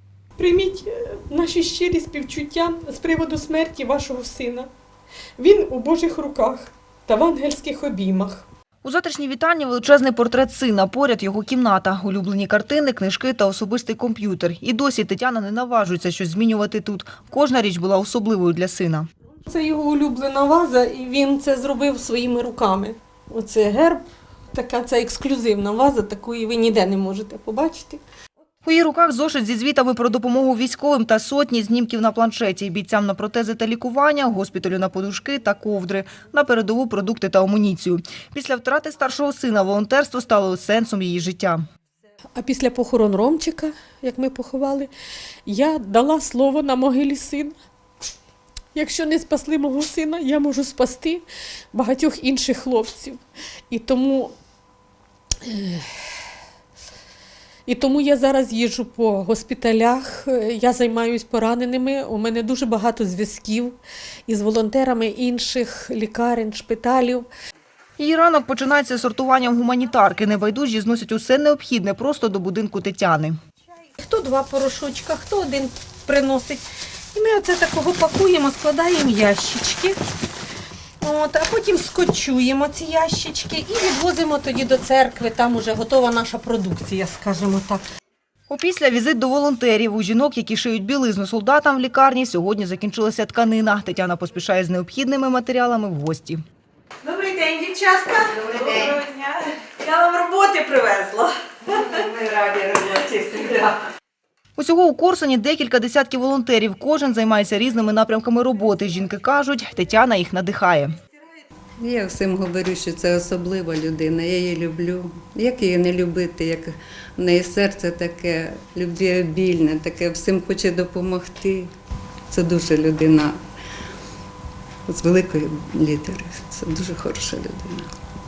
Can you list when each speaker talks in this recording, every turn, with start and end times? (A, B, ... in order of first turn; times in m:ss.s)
0:00.4-0:04.7 A
0:05.4-0:08.4 A
0:08.8-0:19.1 B
0:19.5-0:28.0 A
0:28.6-0:41.6 B
0:42.4-0:44.9 A
0:45.5-0:47.6 A
0:48.8-0:54.3 A
0:55.4-0:55.9 A
0:57.7-1:07.3 A
1:08.0-1:13.4 B
1:14.0-1:16.6 A
1:17.1-1:20.0 A
1:21.0-1:27.8 A
1:28.5-1:36.4 B
1:37.0-1:43.8 C
1:44.6-1:50.9 B
1:51.8-2:01.7 D
2:02.3-2:03.4 D
2:04.9-2:07.9 D